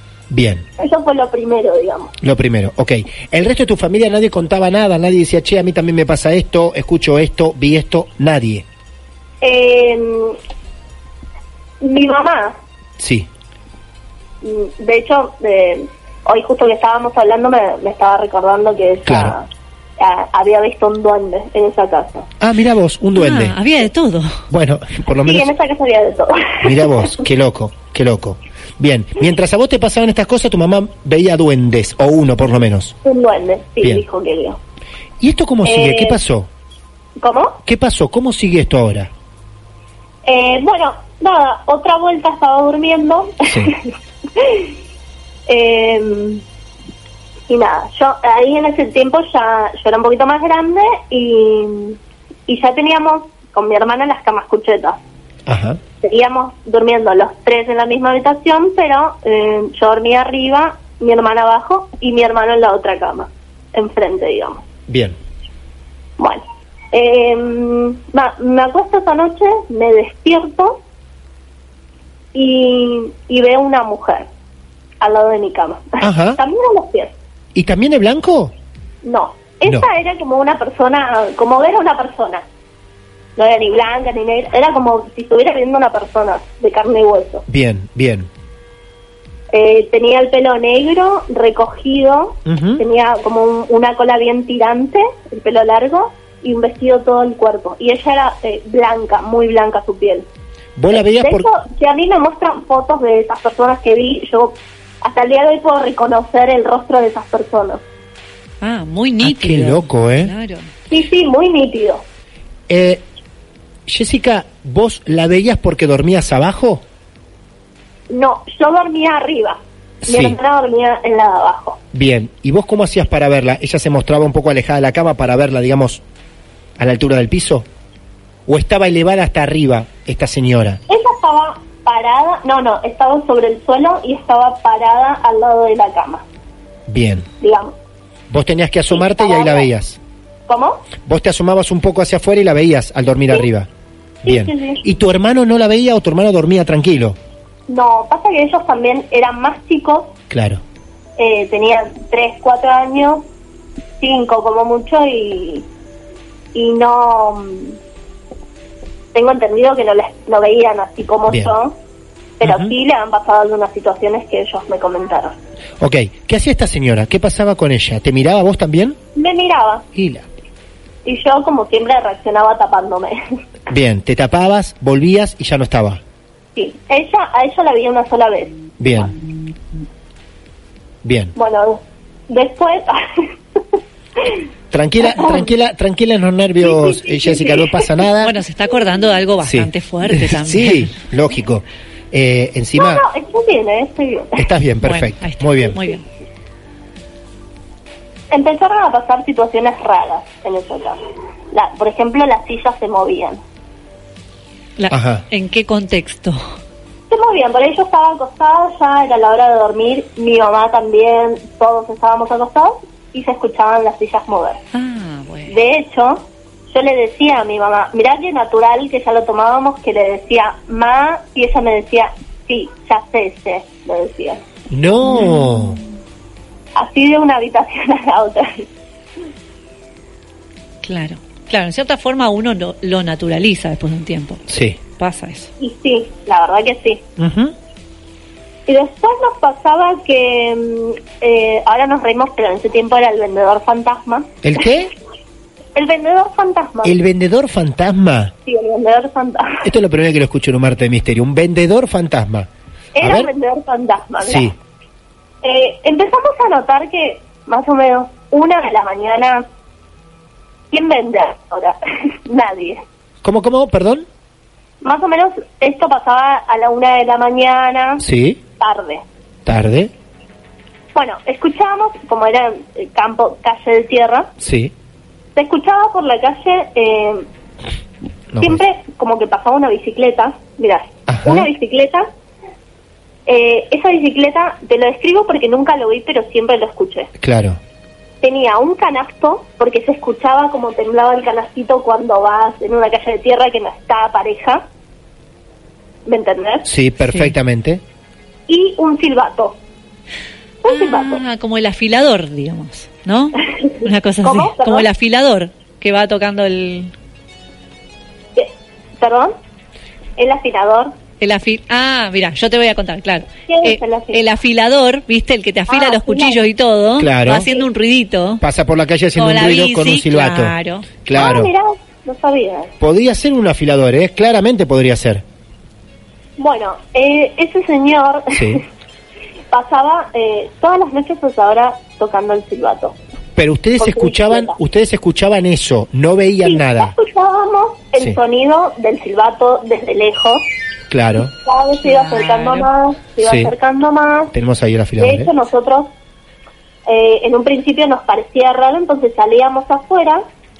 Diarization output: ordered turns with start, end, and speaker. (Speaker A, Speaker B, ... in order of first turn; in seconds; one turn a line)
Speaker A: 0.3-0.6
Speaker B: 0.8-2.1
Speaker A: 2.2-8.6
Speaker B: 9.4-10.4
Speaker B: 11.8-12.6
Speaker A: 13.0-13.3
Speaker B: 14.4-19.4
Speaker A: 19.1-19.4
Speaker B: 20.0-22.3
Speaker A: 22.4-23.6
Speaker C: 23.1-24.4
Speaker A: 24.5-25.5
Speaker B: 25.2-27.1
Speaker A: 26.6-32.9
Speaker B: 33.0-34.6
Speaker A: 35.2-36.5
Speaker B: 35.6-36.2
Speaker B: 37.2-37.6
Speaker A: 37.6-39.1
Speaker B: 40.2-43.8
Speaker A: 43.5-43.7
Speaker B: 44.4-44.7
Speaker B: 45.5-46.4
Speaker B: 47.5-55.0
Speaker A: 55.5-55.8
Speaker B: 56.0-64.6
Speaker A: 64.9-65.2
Speaker B: 66.2-70.8
Speaker B: 72.3-74.3
Speaker B: 75.0-77.1
Speaker A: 76.0-76.4
Speaker A: 77.5-78.5
Speaker B: 79.0-82.4
Speaker B: 83.4-87.4
Speaker A: 87.5-88.3
Speaker B: 89.5-100.3
Speaker A: 92.5-92.8
Speaker A: 100.8-101.5
Speaker B: 100.9-107.8
Speaker C: 108.6-110.7
Speaker A: 109.2-110.3
Speaker B: 110.9-112.0
Speaker A: 112.7-113.0
Speaker A: 113.9-116.8
Speaker B: 118.1-121.8
Speaker A: 120.0-120.4
Speaker A: 121.9-126.0
Speaker A: 126.8-127.7
Speaker A: 128.4-130.8
Speaker B: 130.9-136.2
Speaker A: 136.9-137.3
Speaker B: 137.4-137.7
Speaker A: 138.3-140.0
Speaker B: 138.9-139.7
Speaker B: 140.5-140.9
Speaker A: 141.1-143.7
Speaker B: 144.2-144.8
Speaker A: 144.2-147.2
Speaker B: 147.7-150.2
Speaker A: 150.3-150.6
Speaker B: 151.2-153.2
Speaker B: 154.0-155.7
Speaker B: 156.5-157.8
Speaker B: 159.1-161.8
Speaker A: 161.3-161.6
Speaker B: 162.4-165.3
Speaker A: 162.4-162.7
Speaker A: 165.8-169.0
Speaker B: 169.2-169.9
Speaker A: 169.9-170.3
Speaker B: 171.1-173.2
Speaker A: 173.7-176.0
Speaker B: 176.6-179.1
Speaker A: 178.8-179.1
Speaker A: 181.0-181.3
Speaker B: 181.4-184.4
Speaker A: 184.7-188.4
Speaker B: 185.1-185.5
Speaker B: 186.6-187.9
Speaker C: 188.2-191.0
Speaker A: 189.4-193.0
Speaker B: 192.8-194.4
Speaker A: 194.4-195.8
Speaker C: 194.8-196.0
Speaker B: 198.3-201.0
Speaker B: 201.5-203.4
Speaker C: 204.8-206.4
Speaker A: 204.9-205.2
Speaker B: 207.1-214.6
Speaker C: 214.7-215.6
Speaker B: 215.5-224.4
Speaker A: 224.7-225.8
Speaker C: 225.1-225.8
Speaker B: 226.7-228.7
Speaker C: 230.8-234.4
Speaker A: 234.5-234.8
Speaker C: 235.0-235.5
Speaker B: 235.6-237.0
Speaker A: 237.2-237.6
Speaker B: 238.7-244.3
Speaker A: 244.4-244.9
Speaker B: 245.7-246.9
Speaker A: 246.8-248.3
Speaker B: 248.4-249.7
Speaker A: 249.6-252.5
Speaker B: 252.9-254.6
Speaker A: 253.0-253.3
Speaker A: 254.2-254.6
Speaker B: 255.4-259.4
Speaker B: 260.7-262.8
Speaker A: 263.2-264.1
Speaker B: 264.8-268.0
Speaker A: 268.0-268.4
Speaker B: 268.6-269.0
Speaker A: 269.4-269.9
Speaker B: 270.9-274.3
Speaker A: 274.4-274.7
Speaker B: 275.4-277.2
Speaker A: 278.3-278.6
Speaker B: 278.4-282.1
Speaker A: 281.1-281.5
Speaker B: 283.2-287.1
Speaker A: 287.2-287.6
Speaker B: 288.2-294.6
Speaker B: 296.1-296.7
Speaker A: 296.6-297.8
Speaker C: 297.1-297.3
Speaker B: 298.5-299.6
Speaker B: 300.6-301.2
Speaker C: 300.6-306.9
Speaker B: 303.6-304.9
Speaker B: 308.4-309.4
Speaker B: 310.2-310.9
Speaker C: 311.2-318.4
Speaker B: 313.5-314.2
Speaker B: 315.7-316.4
Speaker A: 317.0-317.4
Speaker A: 318.4-320.5
Speaker C: 319.1-320.9
Speaker A: 321.1-321.5
Speaker B: 321.1-322.7
Speaker A: 322.8-325.2
Speaker B: 326.4-328.6
Speaker A: 328.3-328.6
Speaker B: 329.5-332.9
Speaker A: 333.4-336.9
Speaker B: 333.8-334.6
Speaker B: 336.4-340.5
Speaker A: 340.9-341.3
Speaker B: 341.3-344.3
Speaker C: 341.8-342.7
Speaker A: 343.2-343.5
Speaker A: 344.3-345.3
Speaker B: 345.0-345.9
Speaker B: 346.9-350.2